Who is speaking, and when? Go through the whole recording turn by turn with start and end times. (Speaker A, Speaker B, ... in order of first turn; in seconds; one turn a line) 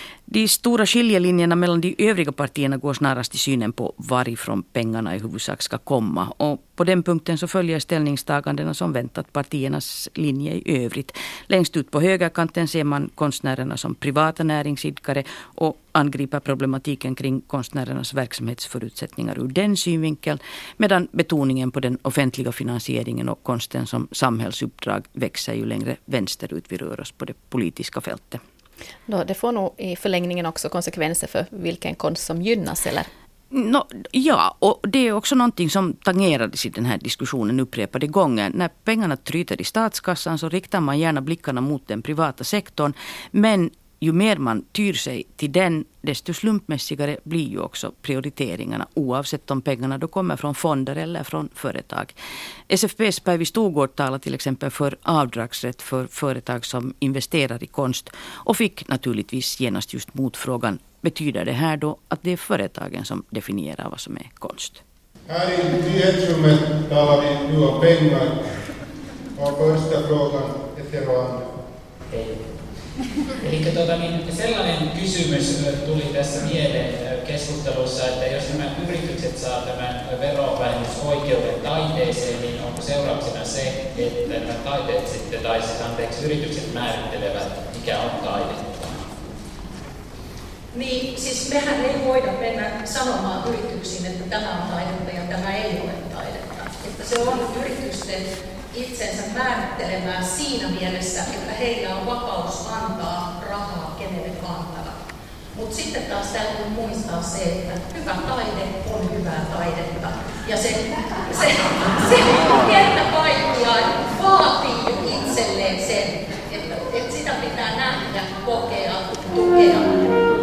Speaker A: 0.3-28.4
Speaker B: 29.1-33.1
Speaker A: 33.5-52.1
Speaker A: 52.7-64.8
Speaker C: 65.3-68.4
Speaker C: 69.4-71.5
Speaker D: 72.1-72.5
Speaker D: 73.4-89.0
Speaker E: 90.7-105.0
Speaker E: 105.5-120.0